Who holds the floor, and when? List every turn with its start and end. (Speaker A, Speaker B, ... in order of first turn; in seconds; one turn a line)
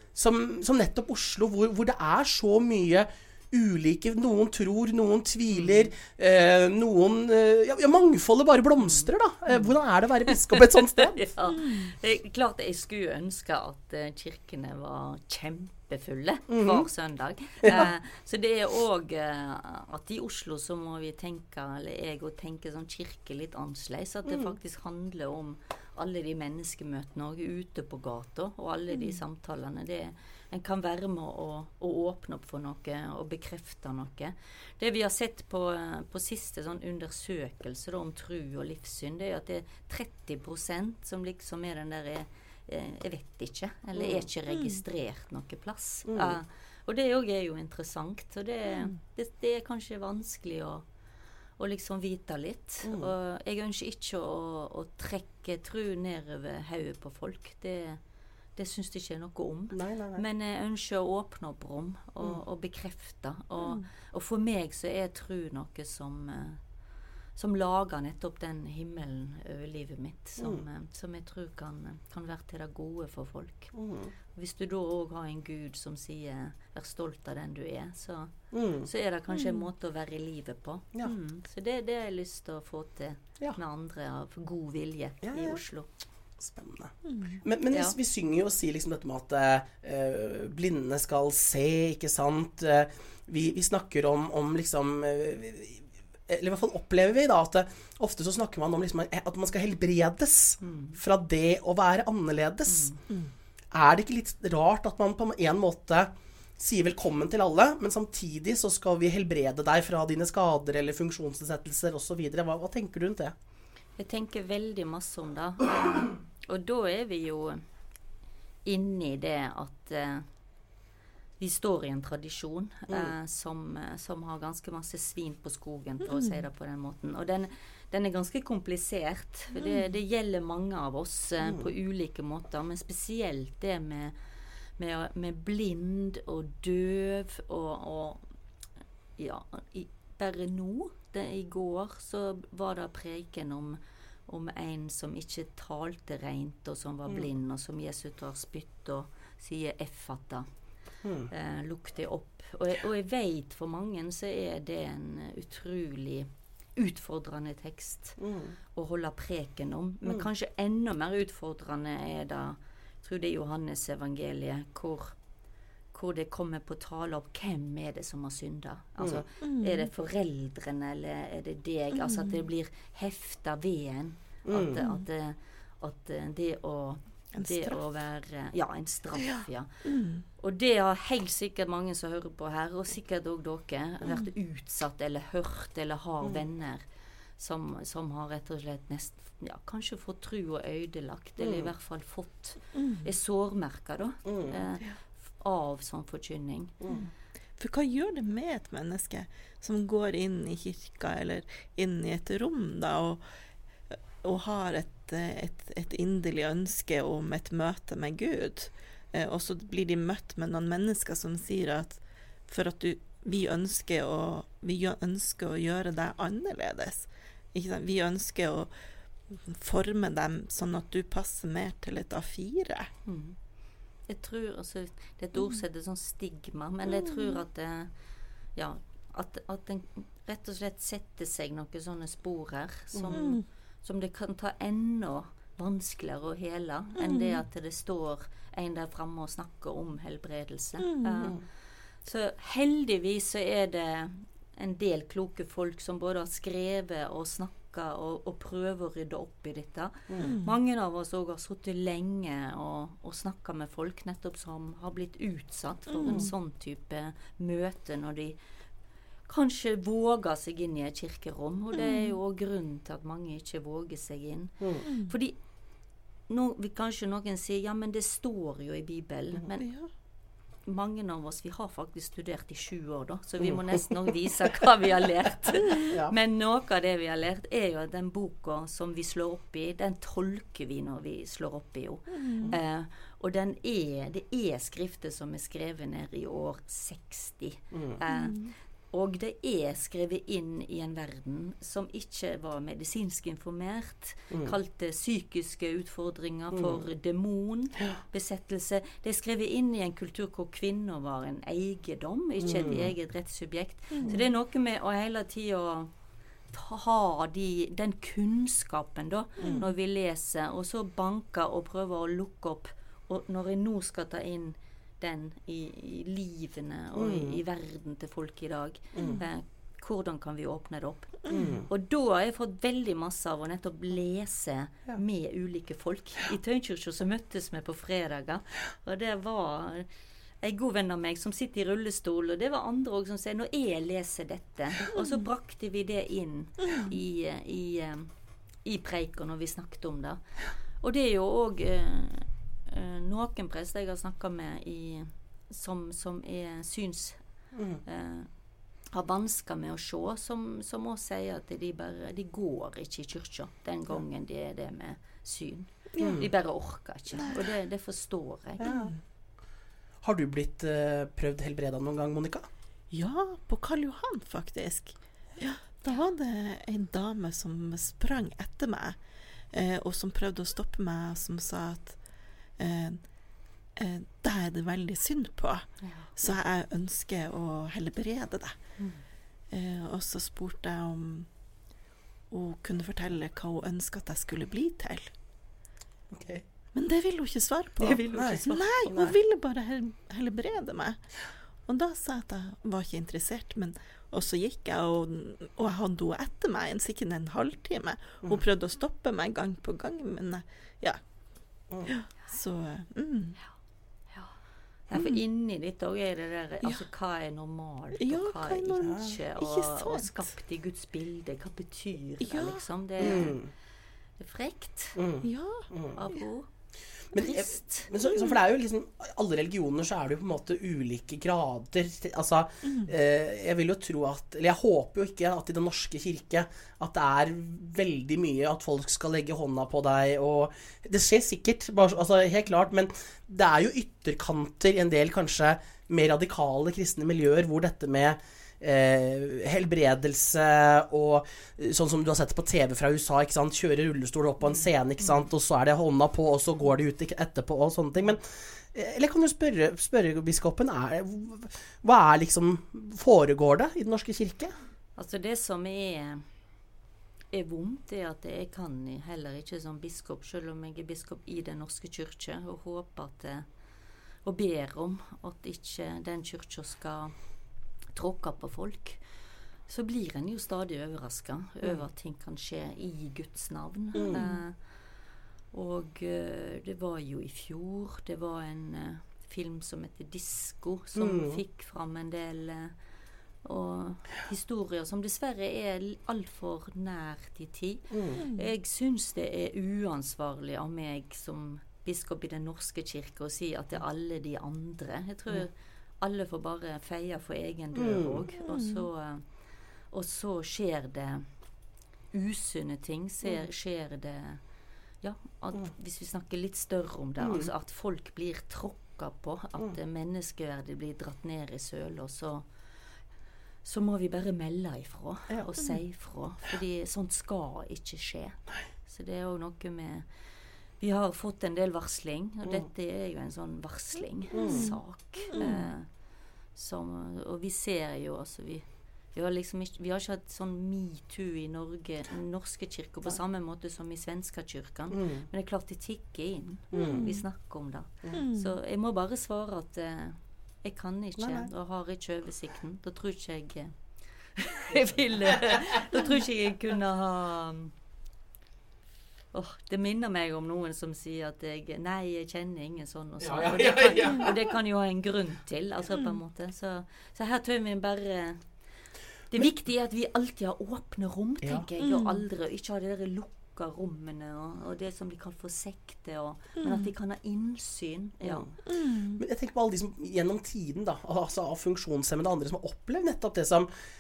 Speaker A: 0.1-11.3
Speaker B: 5.5-5.9
Speaker B: 8.8-9.7
Speaker B: 10.3-50.9
Speaker C: 11.5-11.9
Speaker A: 16.5-16.9
Speaker A: 17.6-17.9
Speaker A: 24.3-24.6
Speaker A: 44.0-44.3
Speaker C: 44.5-44.8
Speaker A: 46.1-46.4
Speaker B: 51.6-58.0
Speaker A: 52.8-53.1
Speaker B: 58.5-66.6
Speaker A: 59.7-60.2
Speaker B: 67.4-73.7
Speaker A: 70.4-70.7
Speaker A: 73.7-74.1
Speaker B: 74.3-78.3
Speaker A: 78.5-78.9
Speaker B: 78.8-85.9
Speaker A: 85.2-85.6
Speaker A: 86.4-103.0
Speaker C: 87.0-87.4
Speaker B: 87.7-88.0
Speaker B: 100.6-101.0
Speaker B: 102.7-103.0
Speaker A: 103.7-113.3
Speaker B: 114.0-117.7
Speaker B: 118.7-120.3
Speaker B: 121.4-134.2
Speaker C: 126.1-126.4
Speaker A: 131.4-131.7
Speaker B: 134.8-138.2
Speaker B: 139.2-150.5
Speaker A: 151.0-151.3
Speaker B: 151.3-158.2
Speaker A: 158.2-158.6
Speaker B: 158.8-165.2
Speaker B: 165.9-186.8
Speaker A: 169.0-169.2
Speaker C: 169.4-169.9
Speaker C: 171.9-172.4
Speaker A: 174.4-174.8
Speaker C: 174.8-175.0
Speaker C: 177.3-177.8
Speaker C: 179.2-180.2
Speaker B: 187.4-196.8
Speaker A: 191.4-191.7
Speaker C: 192.8-193.1
Speaker A: 194.2-194.7
Speaker C: 196.9-203.2
Speaker C: 203.9-218.7
Speaker C: 219.3-222.9
Speaker B: 223.1-223.4
Speaker B: 224.1-227.9
Speaker C: 227.0-227.4
Speaker B: 228.6-241.4
Speaker A: 232.9-233.2
Speaker C: 233.1-233.4
Speaker C: 237.0-237.4
Speaker C: 240.8-241.3
Speaker B: 242.0-258.4
Speaker A: 250.1-250.4
Speaker C: 250.2-250.6
Speaker C: 255.9-256.3
Speaker A: 256.0-256.3
Speaker B: 259.3-265.4
Speaker C: 261.8-262.2
Speaker A: 264.6-264.9
Speaker C: 264.9-265.1
Speaker B: 266.3-269.7
Speaker C: 269.6-269.9
Speaker B: 270.6-305.9
Speaker A: 275.8-276.1
Speaker C: 282.1-282.6
Speaker A: 287.7-288.0
Speaker C: 288.1-288.6
Speaker A: 296.5-296.8
Speaker A: 302.4-302.9
Speaker C: 303.9-304.2
Speaker B: 306.5-329.9
Speaker A: 317.0-317.4
Speaker A: 318.9-319.2
Speaker C: 321.3-321.5
Speaker A: 321.3-321.7
Speaker B: 330.4-338.1
Speaker C: 334.9-335.2
Speaker C: 336.6-337.0
Speaker B: 338.6-340.2
Speaker B: 340.8-347.2
Speaker A: 347.5-347.8
Speaker B: 347.9-348.3
Speaker B: 348.9-358.6
Speaker C: 355.9-356.3
Speaker A: 356.0-356.3
Speaker C: 357.1-357.5
Speaker A: 358.6-358.9
Speaker C: 358.6-358.9
Speaker A: 360.0-362.5
Speaker C: 362.9-369.0
Speaker C: 369.5-372.0
Speaker C: 372.6-373.1
Speaker C: 373.8-378.6
Speaker B: 375.8-376.1
Speaker B: 378.8-379.0
Speaker C: 379.5-381.3
Speaker C: 382.3-385.1
Speaker A: 386.1-386.4
Speaker C: 386.7-391.1
Speaker B: 387.8-388.7
Speaker A: 388.1-389.1
Speaker C: 391.7-401.0
Speaker C: 401.8-403.4
Speaker B: 404.9-413.4
Speaker C: 404.9-405.2
Speaker C: 406.6-406.9
Speaker C: 407.9-410.3
Speaker A: 408.8-409.1
Speaker C: 412.2-413.2
Speaker A: 413.0-413.5
Speaker B: 414.2-415.0
Speaker A: 415.0-416.0
Speaker C: 415.2-416.2
Speaker B: 415.9-416.5
Speaker A: 417.1-454.6
Speaker B: 417.1-417.9
Speaker C: 418.1-418.4
Speaker C: 422.6-422.9
Speaker B: 445.0-445.3
Speaker B: 455.0-456.2
Speaker B: 457.3-463.5
Speaker B: 464.2-467.1
Speaker B: 467.9-469.0
Speaker B: 469.7-474.6
Speaker A: 473.9-474.3
Speaker B: 475.5-482.8
Speaker A: 481.0-481.4
Speaker B: 483.4-499.2
Speaker A: 487.9-488.2
Speaker C: 488.2-488.5
Speaker A: 497.8-498.3
Speaker C: 498.4-498.9
Speaker B: 499.9-501.3
Speaker B: 502.1-504.4
Speaker B: 505.0-512.5
Speaker A: 507.2-507.5
Speaker B: 513.6-520.1
Speaker B: 520.8-525.9
Speaker A: 524.3-524.8
Speaker C: 524.4-525.5
Speaker A: 525.4-525.7
Speaker B: 526.5-543.8
Speaker A: 534.9-535.3
Speaker A: 536.7-537.1
Speaker C: 536.7-537.2
Speaker C: 538.1-538.6
Speaker A: 541.2-541.5
Speaker B: 544.4-547.7
Speaker B: 549.3-558.4
Speaker A: 553.2-554.4
Speaker C: 555.9-556.2
Speaker B: 559.3-568.5
Speaker C: 561.8-562.2
Speaker C: 566.6-566.9
Speaker A: 568.2-568.5
Speaker C: 568.7-569.2
Speaker A: 569.1-573.7